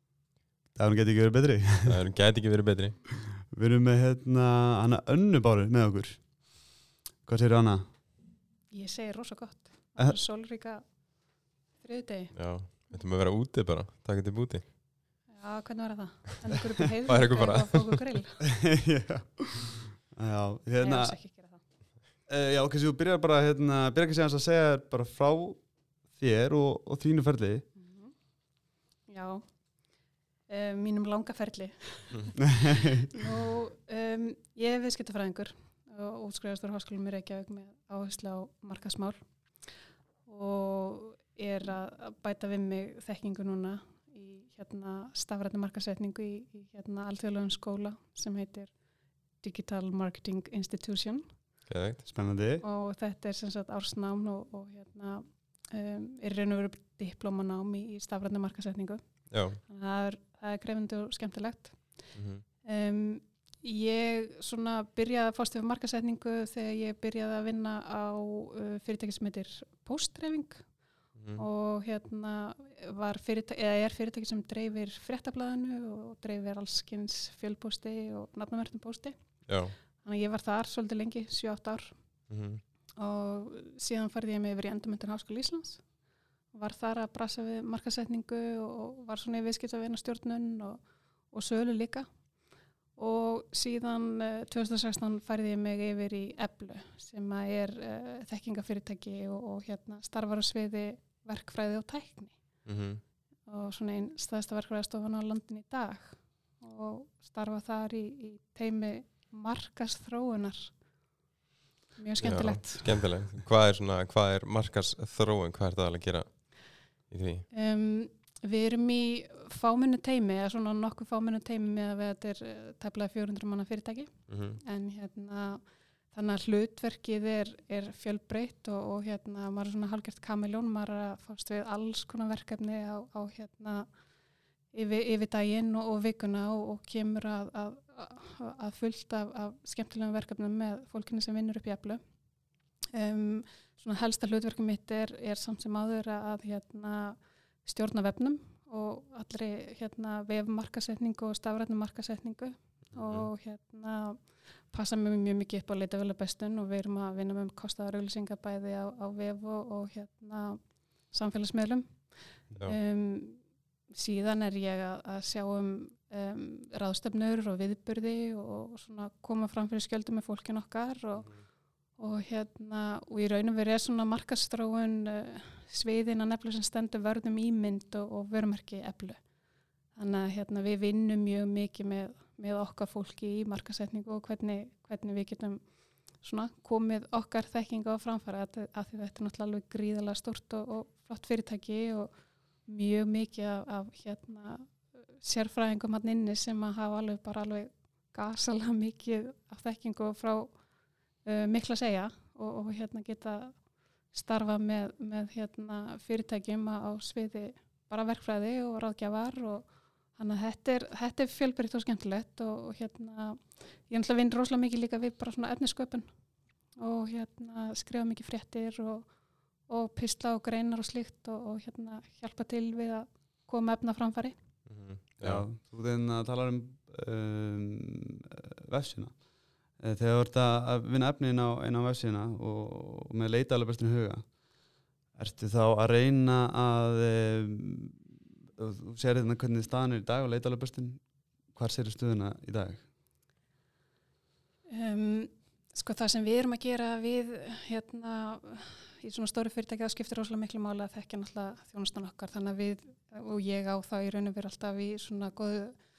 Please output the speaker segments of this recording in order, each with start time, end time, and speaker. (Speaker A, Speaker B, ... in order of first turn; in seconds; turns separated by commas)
Speaker A: 0.8-2.0, Speaker B: 1.9-3.0, Speaker A: 3.4-6.3, Speaker A: 7.2-7.9, Speaker C: 8.7-10.8, Speaker C: 11.8-12.3, Speaker B: 12.3-14.7, Speaker C: 15.3-18.5, Speaker B: 17.1-18.1, Speaker A: 18.5-21.2, Speaker C: 20.8-21.6, Speaker A: 22.3-27.7, Speaker C: 27.8-28.1, Speaker C: 29.1-29.5, Speaker C: 30.5-32.5, Speaker A: 32.4-33.1, Speaker C: 33.1-39.3, Speaker C: 40.3-48.7, Speaker C: 49.4-51.3, Speaker B: 51.7-52.0, Speaker A: 52.1-52.6, Speaker C: 52.6-62.1, Speaker B: 59.3-59.6, Speaker B: 62.1-62.4, Speaker C: 62.6-70.7, Speaker B: 71.2-71.4, Speaker C: 71.4-79.2, Speaker B: 79.5-79.8, Speaker C: 80.0-82.0, Speaker B: 82.3-82.6, Speaker C: 83.0-85.8, Speaker C: 86.5-92.1, Speaker C: 93.0-102.4, Speaker B: 102.7-103.0, Speaker C: 103.5-110.7, Speaker C: 112.0-113.1, Speaker B: 112.2-117.5, Speaker C: 117.5-133.9, Speaker B: 124.3-124.6, Speaker C: 134.7-142.0, Speaker C: 142.9-171.3, Speaker B: 153.0-153.3, Speaker C: 172.0-179.2, Speaker C: 179.9-185.7, Speaker C: 186.2-192.1, Speaker C: 192.7-200.6, Speaker C: 201.2-203.6, Speaker C: 204.1-216.1, Speaker C: 216.8-219.1, Speaker C: 219.7-224.3, Speaker B: 224.7-225.4, Speaker A: 225.2-229.2, Speaker A: 229.8-234.3, Speaker A: 235.2-241.0, Speaker A: 241.5-242.8, Speaker C: 244.7-255.8